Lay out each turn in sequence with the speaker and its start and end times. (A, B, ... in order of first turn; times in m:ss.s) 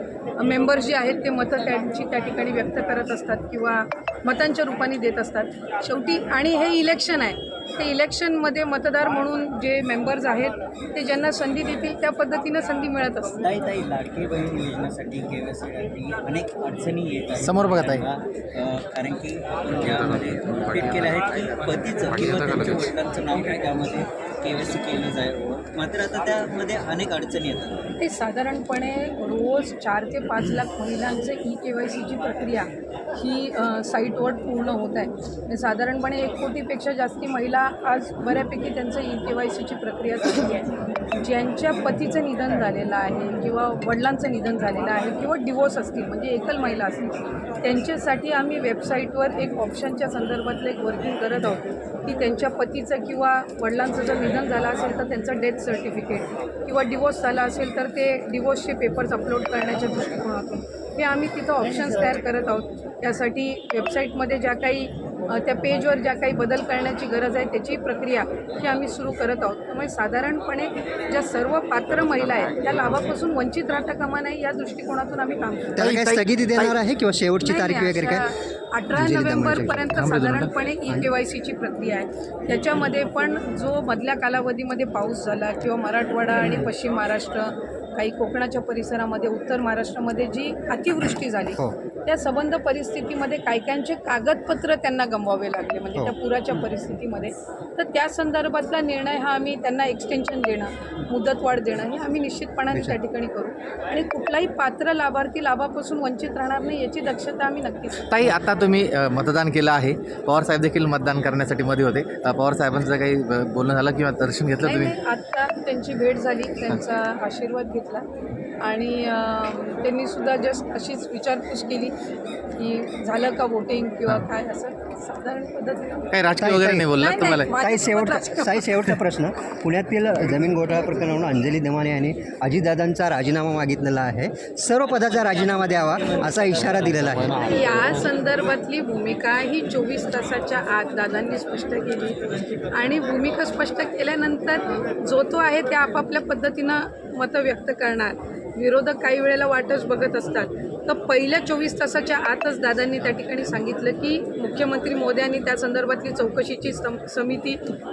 0:00.4-0:13.4 A
0:13.4-0:27.8 B
0:17.4-0:18.0 C
0:19.8-0:22.9 C
0:28.0-1:15.9 A
1:11.9-1:13.0 C
1:15.8-1:18.3 D
1:15.8-1:16.8 C
1:17.4-1:48.0 A
1:18.9-1:19.9 D
1:19.9-1:20.5 C
1:48.1-1:54.9 C
1:54.6-1:58.0 A
1:58.6-2:01.9 A
2:02.6-2:06.1 A
2:06.1-2:07.5 C
2:06.4-2:06.9 D
2:07.0-2:09.0 A
2:07.6-2:17.4 D
2:16.7-2:18.0 C
2:17.4-2:22.2 A
2:22.7-2:37.6 A